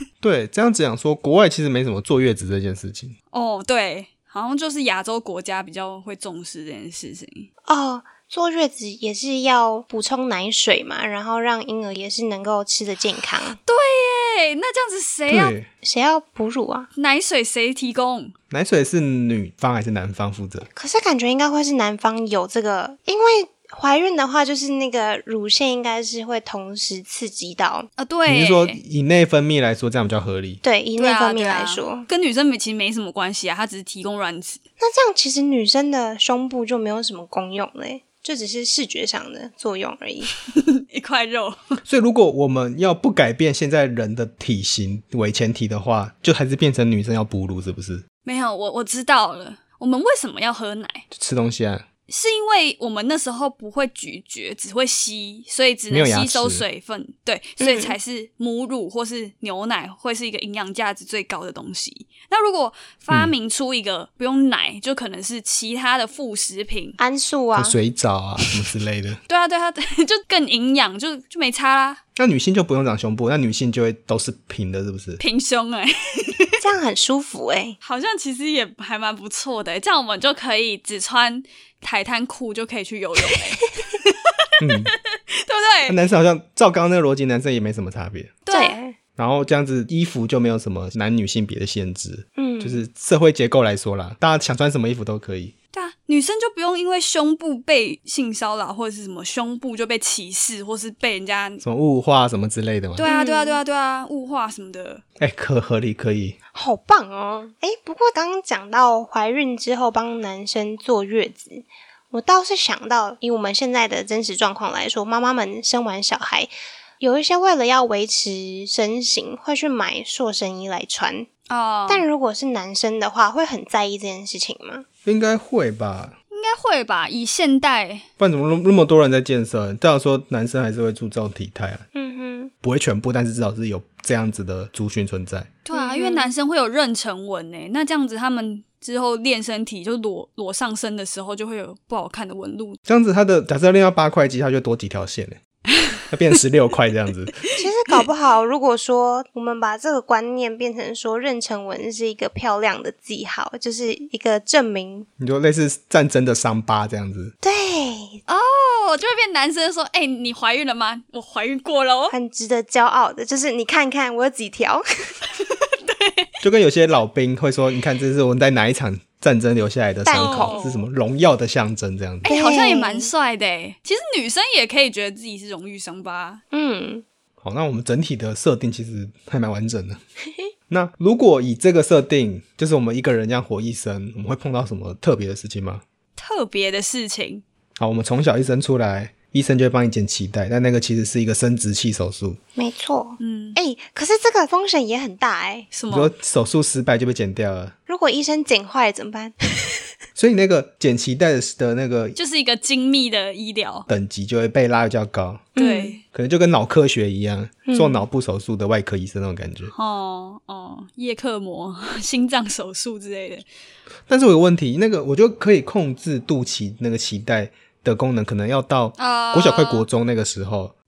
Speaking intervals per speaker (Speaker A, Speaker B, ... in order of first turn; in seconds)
Speaker A: 0.2-3.1, 15.3-15.7, 18.5-20.7, 28.3-30.6, 41.9-48.0, 51.1-51.9, 55.9-56.6, 67.5-69.2, 72.2-75.2, 84.6-84.9, 85.9-88.4, 89.2-95.5, 101.6-103.1, 105.2-106.4, 125.0-126.2, 128.2-131.8, 132.6-135.6, 142.9-145.4, 146.1-147.4, 155.2-157.3, 166.4-172.3, 177.4-180.0, 180.7-185.8, 187.8-192.4, 195.9-197.8, 200.2-202.2, 203.9-205.5, 206.1-209.7, 214.1-220.7
Speaker B: 3.3-7.5, 13.6-15.5, 17.0-18.3, 28.0-28.8, 31.0-34.6, 40.6-41.8, 48.2-51.0, 52.1-67.0, 69.3-72.0, 75.2-76.5, 77.8-84.2, 85.0-86.0, 88.4-88.8, 95.7-101.6, 103.0-105.0, 121.5-122.1, 126.3-128.1, 135.7-142.8, 158.3-162.2, 165.5-166.3, 170.1-170.8, 172.2-176.4, 186.2-187.4, 193.2-193.6, 195.7-196.1, 202.2-203.9, 205.6-206.0, 209.7-213.4, 219.0-219.9
Speaker C: 7.7-13.6, 15.8-16.9, 20.8-27.9, 30.6-32.1, 34.8-40.3, 57.6-58.0, 67.0-67.8, 76.6-77.8, 88.5-89.0, 92.4-92.8, 103.0-103.6, 106.5-121.3, 121.9-124.9, 131.9-132.5, 135.7-136.3, 147.6-155.1, 157.4-158.2, 162.1-165.2, 170.1-170.7, 172.2-173.1, 176.5-177.1, 192.6-195.7, 197.9-199.8, 205.6-206.0, 207.7-208.1